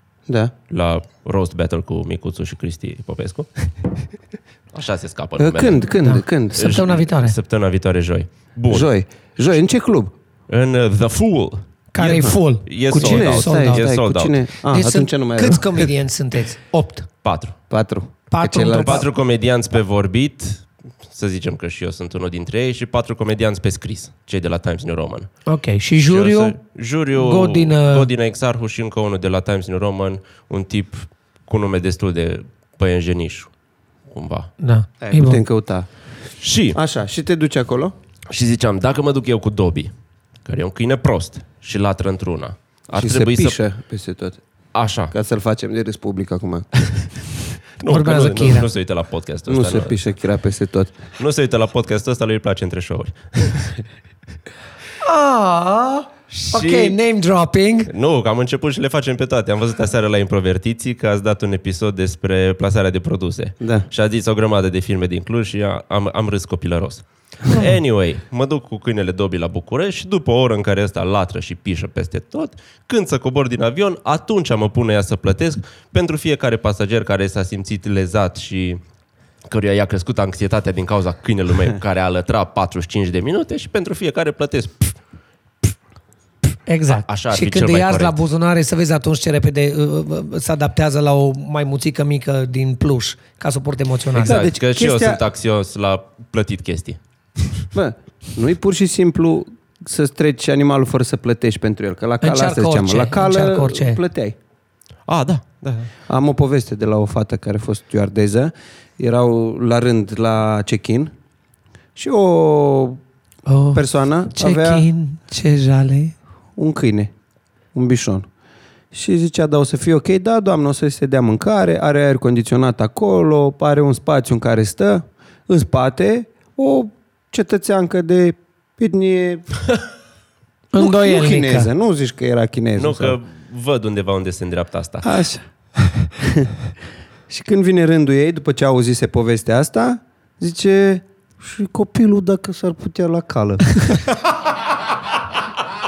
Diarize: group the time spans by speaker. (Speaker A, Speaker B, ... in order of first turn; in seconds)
Speaker A: 0.3-0.5, 5.4-6.7, 8.7-10.1, 12.0-12.3, 12.9-15.9, 17.7-19.1, 35.0-35.9, 36.7-37.9, 42.9-44.4, 45.1-46.7, 49.5-50.9, 63.6-63.9, 94.1-95.2, 97.7-104.3, 106.1-111.1, 112.0-113.0, 113.7-114.9, 116.5-117.1, 117.7-118.3, 118.9-129.5, 130.8-133.2, 135.0-136.6, 137.3-143.7
Speaker B: 0.7-3.7, 4.7-5.9, 6.5-8.9, 10.5-11.6, 12.7-14.4, 17.2-17.6, 18.8-25.3, 25.9-33.5, 34.1-34.5, 36.4-36.8, 38.3-39.9, 40.4-43.6, 44.7-45.1, 47.8-50.0, 51.2-53.8, 56.3-57.0, 57.9-78.8, 79.5-85.0, 86.9-88.2, 94.1-97.7, 105.1-105.9, 132.8-135.2
Speaker C: 6.0-7.3, 11.9-13.8, 14.6-17.1, 18.3-19.1, 25.5-26.6, 27.1-28.1, 34.6-35.4, 47.8-48.7, 55.0-57.9, 86.7-94.4, 102.2-104.0, 113.5-116.2, 130.7-131.7